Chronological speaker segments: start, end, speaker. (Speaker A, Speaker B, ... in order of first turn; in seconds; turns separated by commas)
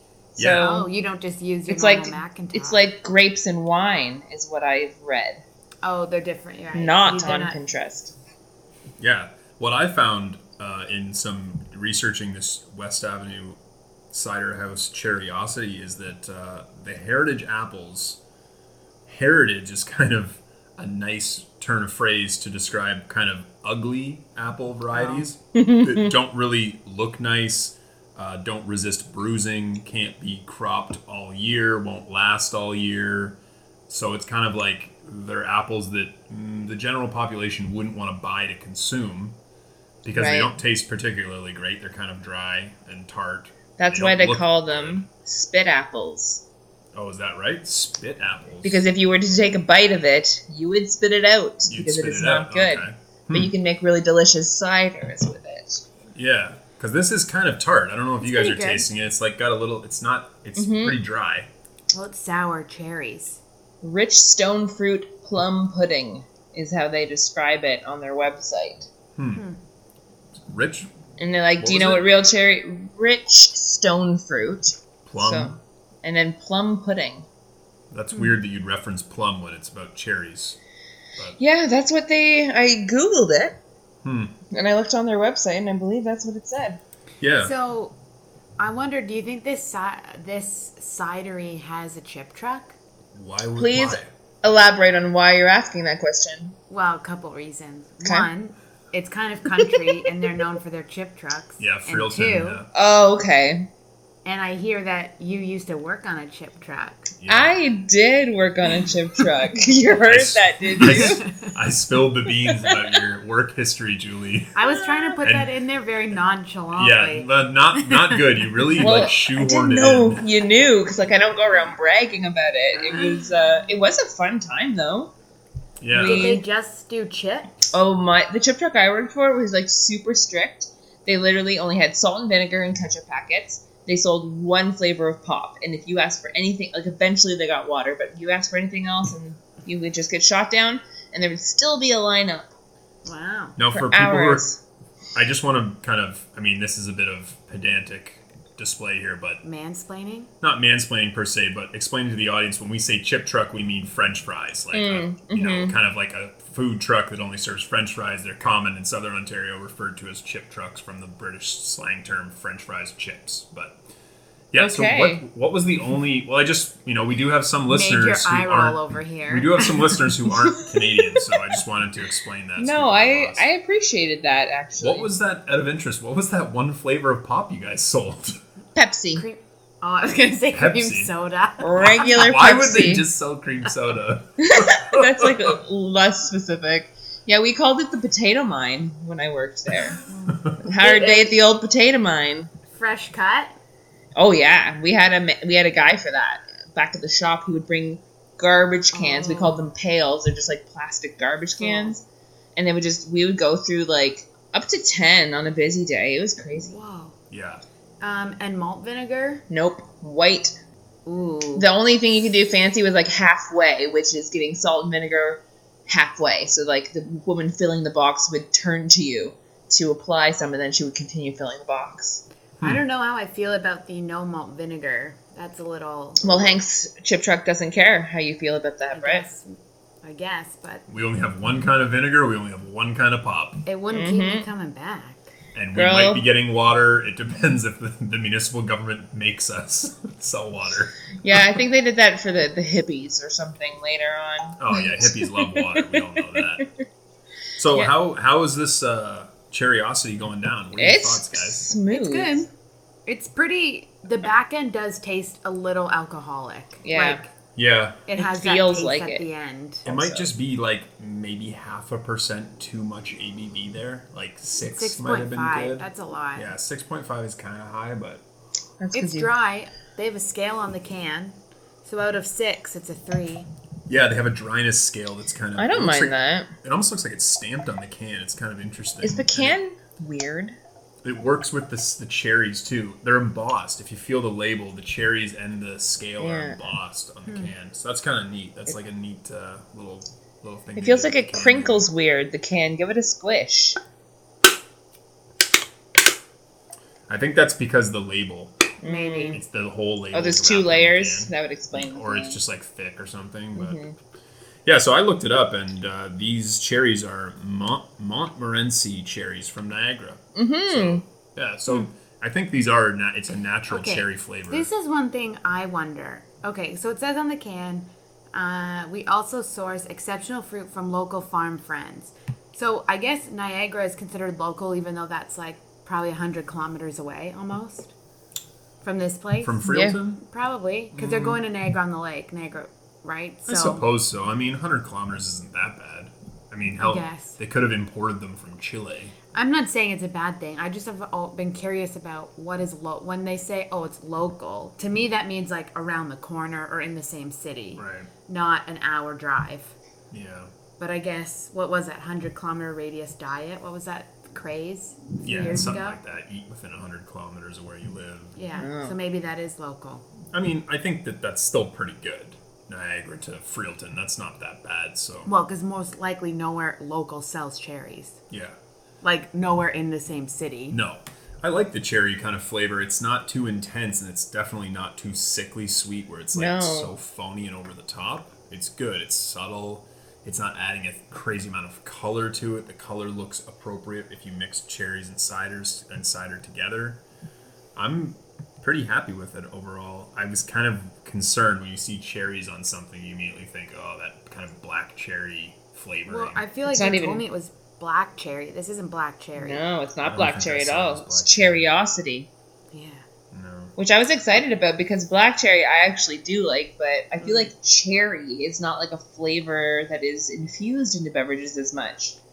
Speaker A: 0.4-0.7, Speaker B: 0.4-0.9, Speaker C: 0.6-2.8, Speaker B: 1.7-5.4, Speaker C: 5.8-7.6, Speaker B: 6.7-8.1, Speaker A: 9.0-13.6, Speaker A: 14.1-18.2, Speaker A: 19.1-33.4, Speaker C: 24.9-25.2, Speaker B: 25.6-26.1, Speaker A: 33.9-39.4, Speaker A: 40.0-45.0, Speaker B: 40.1-40.5, Speaker B: 43.8-46.4, Speaker A: 47.0-48.9, Speaker B: 48.6-55.8, Speaker A: 51.7-53.5, Speaker A: 56.1-61.5, Speaker C: 58.2-58.9, Speaker B: 60.6-61.0, Speaker C: 61.9-63.4, Speaker B: 63.8-68.9, Speaker A: 69.2-69.4, Speaker A: 70.3-70.9, Speaker B: 71.2-77.3, Speaker A: 71.6-72.1, Speaker A: 75.1-75.6, Speaker A: 77.9-80.6, Speaker B: 81.4-83.6, Speaker A: 84.0-84.3, Speaker B: 84.5-86.8, Speaker A: 87.2-87.5, Speaker C: 87.4-88.0, Speaker C: 88.6-92.8, Speaker A: 93.1-94.1, Speaker B: 93.6-96.5, Speaker C: 96.7-102.6, Speaker A: 101.6-102.7, Speaker B: 102.7-103.7, Speaker C: 104.2-107.1, Speaker A: 107.2-107.6, Speaker B: 107.3-111.2, Speaker A: 110.0-114.5, Speaker C: 110.8-111.5, Speaker B: 112.7-113.0, Speaker C: 114.5-118.9, Speaker B: 114.7-115.2, Speaker A: 115.2-115.5, Speaker A: 116.8-120.3, Speaker B: 118.8-125.1, Speaker C: 122.8-123.3, Speaker A: 125.8-126.4, Speaker B: 125.9-126.4, Speaker C: 125.9-127.5, Speaker B: 127.7-142.5, Speaker C: 143.1-143.6, Speaker A: 143.6-144.4, Speaker B: 143.7-144.6, Speaker A: 145.2-149.4, Speaker C: 149.4-150.3, Speaker A: 150.4-163.8, Speaker B: 154.7-155.7, Speaker A: 164.5-173.5, Speaker B: 164.6-165.2, Speaker C: 167.7-169.8, Speaker B: 170.7-171.2, Speaker B: 172.6-175.1, Speaker A: 174.8-178.4, Speaker B: 178.8-179.2, Speaker C: 179.1-182.0, Speaker A: 180.5-181.1, Speaker B: 181.6-183.1, Speaker A: 181.8-185.6, Speaker B: 184.4-190.0, Speaker C: 190.1-191.3, Speaker B: 190.6-192.5, Speaker C: 192.7-193.6, Speaker B: 194.2-202.0, Speaker C: 198.9-199.7, Speaker C: 201.6-201.9, Speaker B: 202.6-206.7, Speaker C: 206.6-207.2, Speaker A: 207.3-207.6, Speaker C: 208.0-209.4, Speaker B: 209.5-210.6, Speaker C: 211.1-211.7, Speaker B: 211.6-222.2, Speaker C: 222.6-226.6, Speaker B: 226.2-229.2, Speaker C: 228.9-230.8, Speaker A: 230.9-233.6, Speaker C: 233.7-235.3, Speaker B: 233.9-234.4, Speaker A: 235.5-241.4, Speaker B: 235.8-236.2, Speaker B: 241.2-246.6, Speaker A: 244.6-246.7, Speaker A: 247.6-251.7, Speaker B: 250.8-252.4, Speaker C: 251.9-252.5, Speaker C: 253.1-257.3, Speaker B: 256.8-257.2, Speaker A: 257.6-258.0, Speaker C: 258.1-259.9, Speaker B: 258.1-259.2, Speaker B: 259.9-260.3, Speaker A: 259.9-268.2, Speaker C: 264.7-266.5, Speaker B: 268.8-269.3, Speaker C: 268.9-273.5, Speaker A: 273.9-279.6, Speaker B: 275.6-276.5, Speaker B: 279.0-280.6, Speaker A: 281.0-291.9, Speaker B: 286.2-286.6, Speaker C: 287.3-287.5, Speaker B: 290.8-293.8, Speaker A: 297.1-298.6, Speaker B: 298.8-299.4, Speaker C: 298.9-299.4, Speaker A: 299.3-303.8, Speaker B: 300.1-302.4, Speaker B: 303.6-303.9, Speaker A: 304.6-314.7, Speaker B: 310.4-311.0, Speaker C: 313.7-327.9, Speaker C: 328.8-329.6, Speaker A: 329.4-330.2, Speaker B: 329.6-330.0, Speaker C: 330.2-333.9, Speaker A: 330.9-331.4, Speaker A: 333.5-339.1, Speaker C: 336.8-337.4, Speaker C: 339.3-349.7, Speaker A: 347.8-348.1, Speaker A: 350.1-350.5, Speaker C: 350.8-356.0, Speaker A: 355.2-358.4, Speaker C: 358.4-360.1, Speaker B: 358.6-358.9, Speaker A: 360.3-365.3, Speaker C: 365.3-368.2, Speaker A: 368.3-368.6, Speaker C: 369.0-370.8, Speaker A: 370.7-387.0, Speaker B: 376.3-376.9, Speaker A: 387.8-396.4, Speaker C: 396.1-399.6, Speaker B: 396.6-397.2, Speaker B: 399.4-402.3, Speaker A: 400.0-401.7, Speaker C: 402.7-403.0, Speaker A: 403.3-403.8, Speaker B: 403.8-412.2, Speaker C: 407.2-407.5